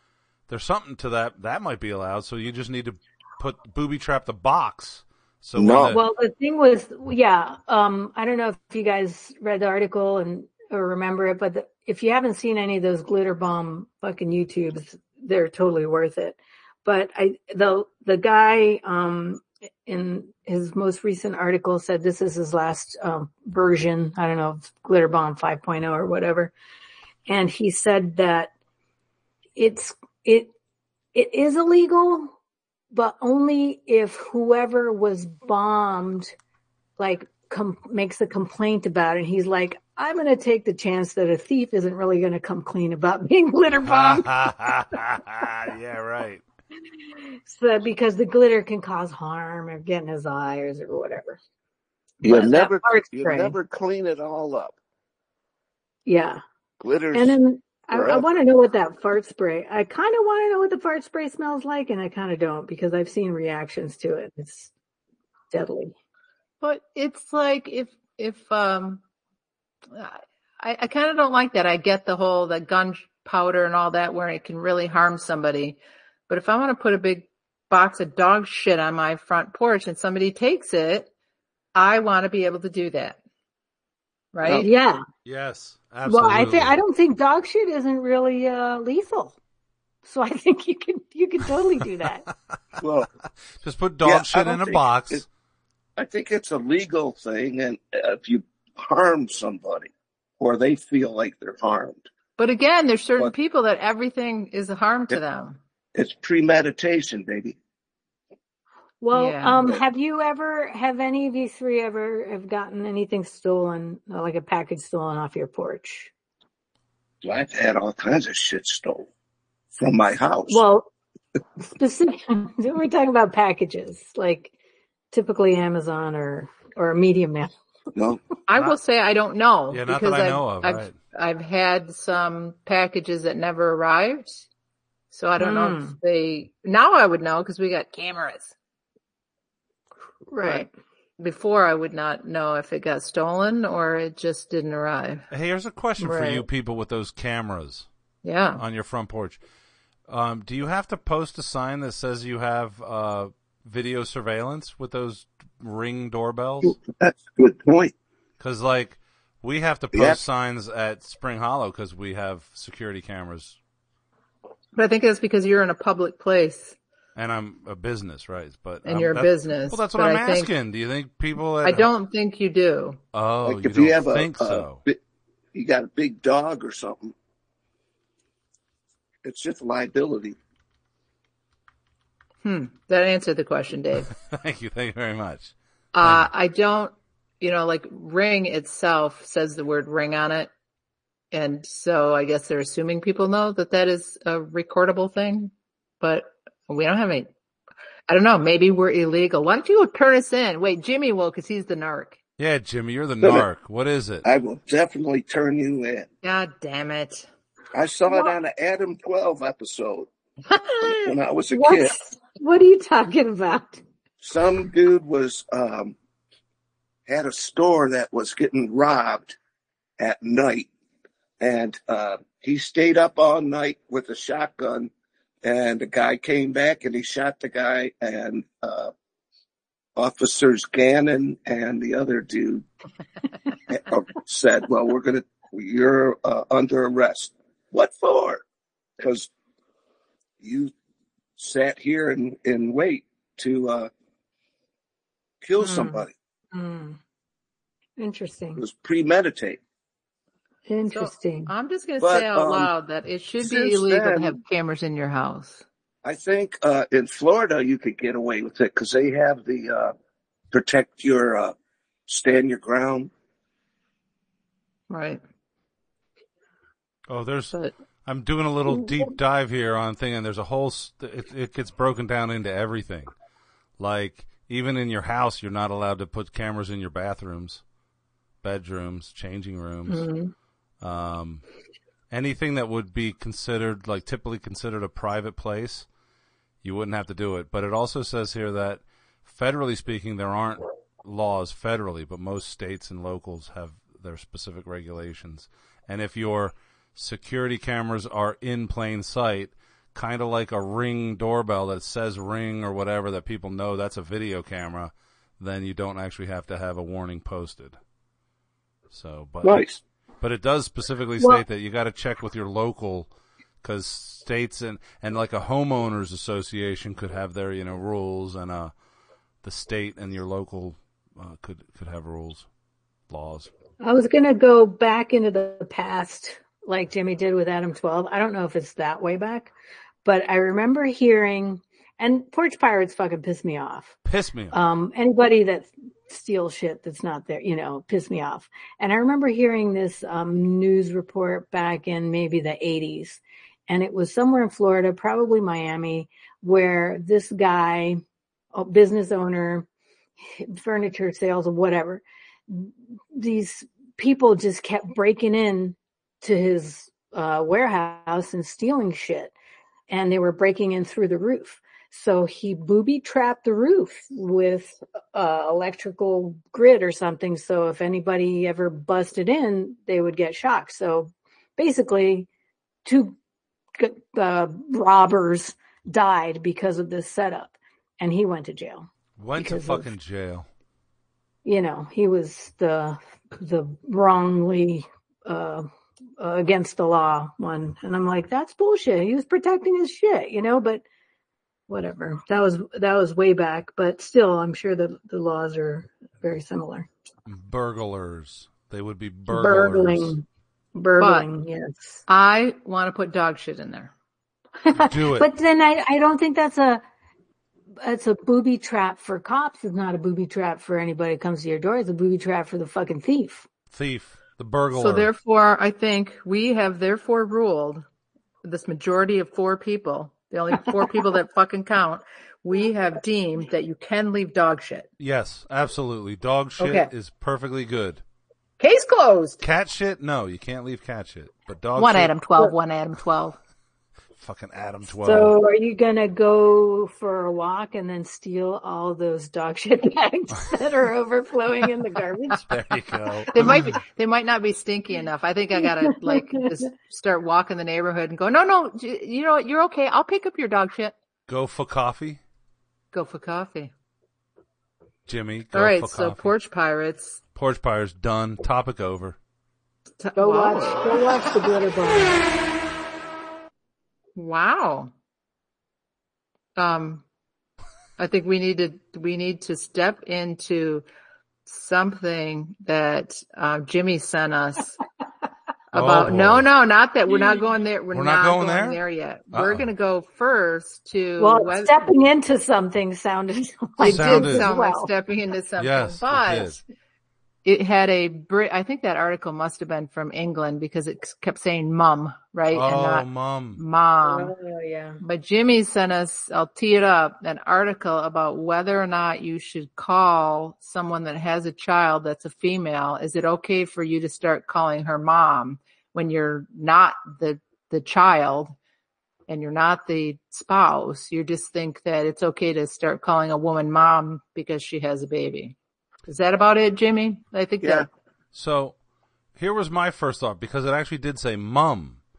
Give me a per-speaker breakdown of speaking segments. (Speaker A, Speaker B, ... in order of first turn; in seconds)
Speaker A: 0.5-6.0, 43.9-46.4, 85.2-86.8, 93.6-95.2, 129.7-130.9, 145.3-147.9, 148.6-149.4, 150.1-156.8, 158.4-163.6, 167.2-171.9, 173.1-174.8, 184.3-186.3, 202.4-204.3, 267.1-273.1, 273.8-277.6, 278.4-280.1, 280.8-281.4, 282.1-285.9, 286.6-307.8, 308.9-309.6, 310.2-313.1, 313.6-318.7, 319.4-322.5, 323.1-323.5, 334.1-334.6, 379.2-380.5, 397.3-400.2, 404.7-405.3, 413.7-415.1, 425.0-428.0, 429.4-432.1, 434.2-435.4, 442.5-443.7, 451.3-452.2, 455.1-456.3, 457.4-459.2, 475.7-476.5, 477.9-478.8, 479.3-479.7, 483.8-484.5, 485.6-486.6, 492.5-493.6, 518.3-518.8, 519.4-522.0
Speaker B: 5.6-6.0, 52.2-54.8, 56.8-57.4, 57.9-58.2, 92.8-93.1, 94.0-95.2, 96.0-102.1, 106.0-107.6, 117.2-119.1, 119.8-120.6, 128.0-128.2, 156.6-157.9, 159.9-160.2, 173.4-175.0, 175.5-177.1, 179.2-180.4, 204.2-206.1, 207.7-210.1, 210.9-211.9, 214.2-216.0, 217.1-219.4, 220.0-220.7, 221.4-224.9, 225.4-228.9, 230.0-232.7, 233.7-238.4, 239.0-239.3, 240.4-240.7, 241.4-243.9, 245.4-246.1, 248.6-249.6, 252.0-252.7, 253.4-254.4, 256.0-259.9, 260.5-261.6, 262.1-263.1, 309.4-309.8, 517.6-517.9
Speaker C: 5.9-26.5, 27.3-28.5, 29.6-30.5, 31.1-32.3, 32.9-36.3, 37.0-44.3, 47.5-51.4, 52.2-53.5, 56.1-56.4, 57.1-64.7, 65.5-66.0, 84.5-85.0, 86.1-89.4, 90.0-92.3, 109.0-116.1, 120.5-120.9, 121.6-124.5, 125.1-127.5, 135.4-135.9, 140.3-140.7, 146.0-146.5, 211.5-213.8, 245.6-247.0, 248.0-248.6, 250.7-251.5, 279.9-280.3, 323.8-329.5, 330.0-334.0, 334.5-348.0, 348.5-349.7, 350.2-359.3, 359.9-372.3, 372.9-373.2, 373.8-379.9, 381.4-390.8, 391.7-396.9, 399.3-402.0, 404.6-406.8, 407.8-413.5, 434.9-442.5, 445.6-446.5, 460.2-462.1, 481.2-484.9, 494.0-495.0
Speaker D: 66.6-69.0, 69.9-81.1, 81.8-83.2, 84.3-84.7, 102.4-105.6, 109.1-109.6, 128.5-134.5, 135.1-138.6, 141.2-145.3, 148.2-148.6, 164.8-166.8, 168.8-170.5, 171.6-173.0, 182.4-184.1, 185.9-190.5, 191.3-197.3, 198.1-202.2, 206.2-207.3, 250.9-255.6, 264.9-265.2, 401.0-401.3, 402.1-403.9, 414.7-417.9, 418.4-424.9, 426.6-426.9, 428.6-429.4, 431.8-433.4, 443.3-450.9, 452.9-453.7, 455.5-457.2, 460.0-461.1, 464.2-464.9, 466.6-467.0, 468.0-470.9, 471.5-474.8, 475.7-481.8, 483.8-486.6, 487.4-494.3, 495.0-508.6, 509.3-515.6, 516.1-517.9